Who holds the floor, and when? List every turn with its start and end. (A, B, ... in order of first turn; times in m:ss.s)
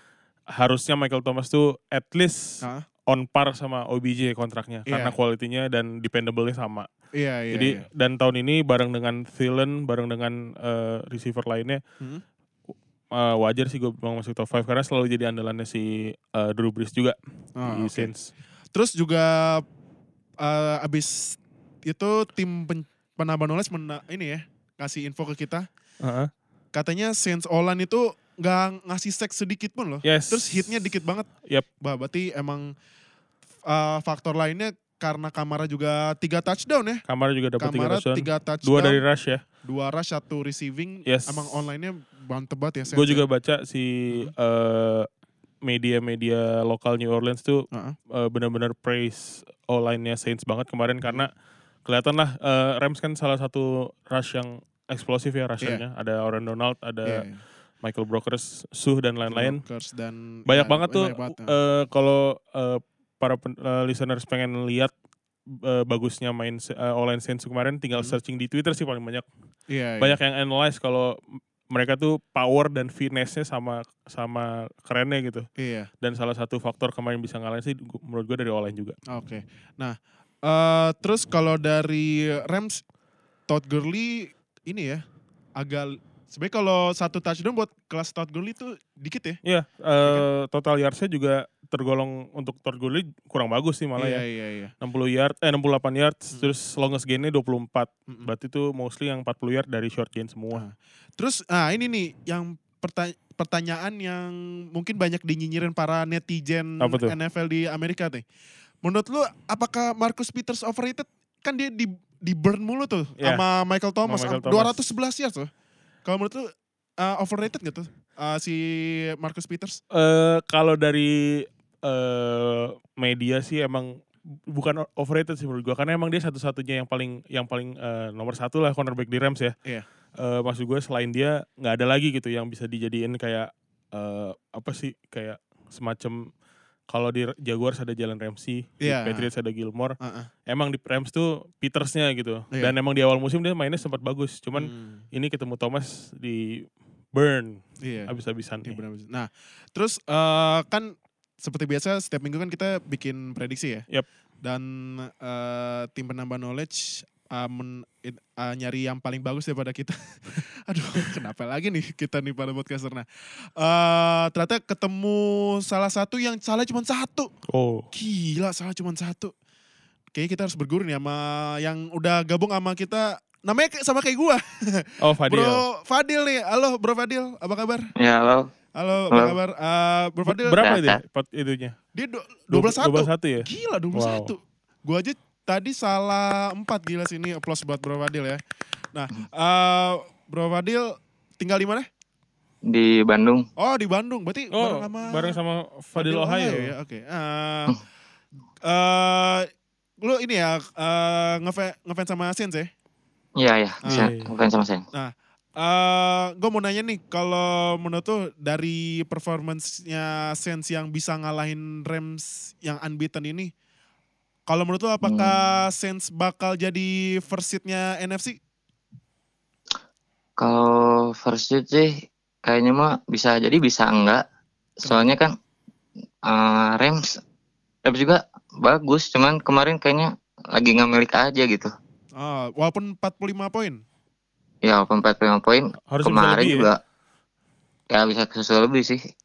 0:00.5-0:06.9 A
0:04.9-0:05.2 B
0:07.1-0:07.8 B
0:07.5-0:11.8 A
0:13.1-0:18.3 A
0:17.6-0:18.1 B
0:18.7-0:19.6 B
0:20.4-0:25.7 B
0:26.0-0:26.3 A
0:26.7-0:31.3 B
0:30.0-0:30.8 A
0:31.8-0:32.7 B
0:33.7-0:37.0 B
0:37.1-0:39.4 A
0:37.6-0:39.0 B
0:39.6-0:43.2 B
0:41.0-0:41.6 A
0:42.9-0:45.1 A
0:45.6-0:51.3 A
0:47.7-0:48.0 B
0:51.8-0:57.3 A
0:57.0-0:57.4 B
0:57.8-0:59.6 A
0:59.3-1:01.5 B
1:00.5-1:04.9 A
1:05.5-1:09.3 A
1:09.7-1:10.2 B
1:10.0-1:15.5 A
1:15.6-1:15.9 B
1:16.0-1:19.0 A
1:19.1-1:22.8 B
1:23.5-1:25.0 B
1:25.6-1:29.4 B
1:29.4-1:34.2 A
1:34.0-1:34.7 B
1:34.8-1:40.6 A
1:40.5-1:48.2 B
1:46.8-1:47.2 A
1:48.8-1:55.5 B
1:54.0-1:54.8 A
1:56.0-1:59.8 B
1:59.9-2:09.5 A
2:10.2-2:16.3 A
2:16.9-2:28.8 A
2:18.8-2:19.3 B
2:20.0-2:20.3 B
2:24.5-2:25.0 B
2:27.8-2:28.1 B
2:28.6-2:33.8 B
2:34.4-2:47.3 B
2:47.5-2:47.9 A
2:47.9-2:49.3 B
2:50.1-2:57.9 B
2:55.0-2:55.6 A
2:58.0-2:58.5 C
2:58.7-3:00.6 B
2:59.1-2:59.4 C
3:00.2-3:01.8 A
3:00.6-3:01.0 C
3:01.9-3:08.4 B
3:02.5-3:04.3 A
3:08.9-3:11.9 B
3:12.6-3:13.5 C
3:13.6-3:15.4 B
3:14.5-3:16.7 A
3:15.9-3:17.8 B
3:18.6-3:19.5 B
3:20.0-3:22.7 B
3:23.4-3:24.8 C
3:23.8-3:24.1 B
3:23.9-3:24.3 A
3:24.9-3:33.5 B
3:34.5-3:38.4 B
3:35.0-3:35.4 C
3:40.4-3:44.2 C
3:44.8-3:45.1 B
3:44.8-3:45.3 C
3:46.3-3:47.2 C
3:47.8-3:51.7 C
3:52.2-3:53.8 B
3:54.6-3:56.8 C
3:55.9-3:56.7 A
3:57.9-3:59.0 C